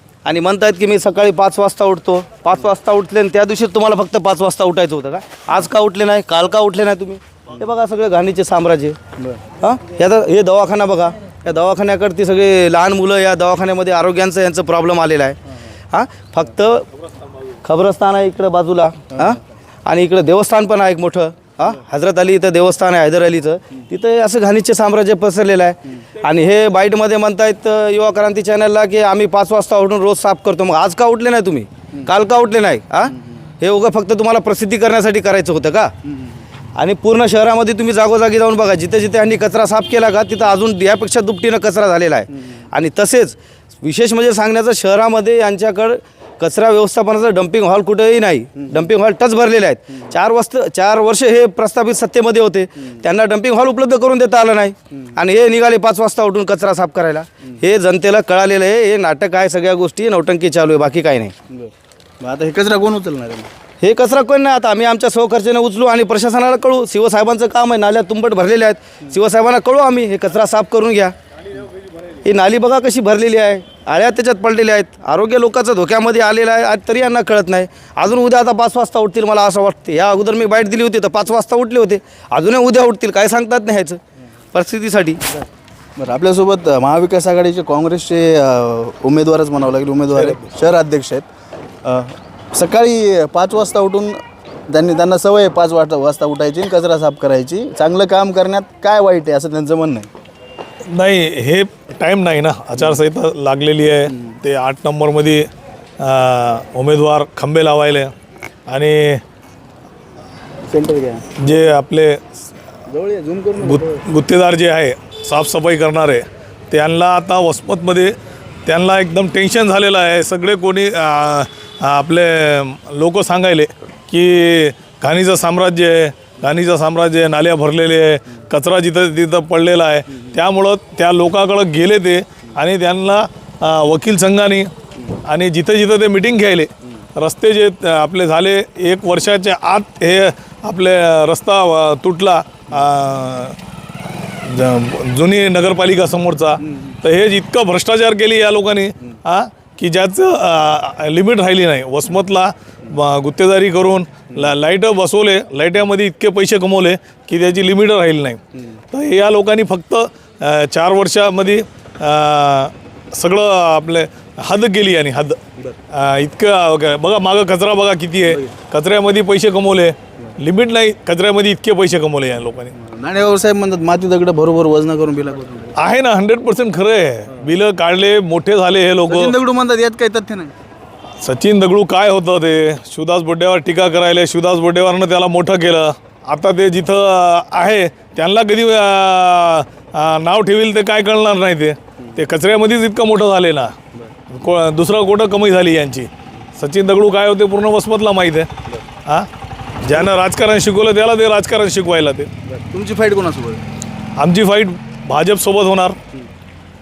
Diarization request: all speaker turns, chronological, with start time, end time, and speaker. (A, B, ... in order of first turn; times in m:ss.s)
0:00.2-0:09.0 A
0:09.6-0:15.4 A
0:15.9-0:16.9 A
0:17.6-0:35.9 A
0:19.1-0:19.4 B
0:36.1-0:36.4 B
0:36.8-1:01.3 A
0:48.6-0:48.9 B
1:01.5-1:03.5 B
1:03.8-1:11.1 A
1:12.2-1:24.0 A
1:24.5-1:25.2 A
1:26.0-1:31.3 B
1:31.8-1:40.1 B
1:40.9-1:45.5 C
1:46.0-1:48.1 C
1:48.7-1:49.2 C
1:50.7-1:51.5 B
1:51.4-1:52.2 C
1:52.9-1:54.0 B
1:53.6-1:58.1 C
1:58.7-2:14.7 C
2:15.3-2:23.6 C
2:24.4-2:38.4 C
2:38.9-2:45.4 C
2:45.9-2:52.7 C
2:52.7-2:55.8 B
2:55.8-2:59.4 C
2:59.1-3:00.5 B
3:01.2-3:13.7 C
3:14.3-3:18.5 C
3:19.8-3:22.3 C
3:22.5-3:23.6 B
3:24.2-3:26.0 C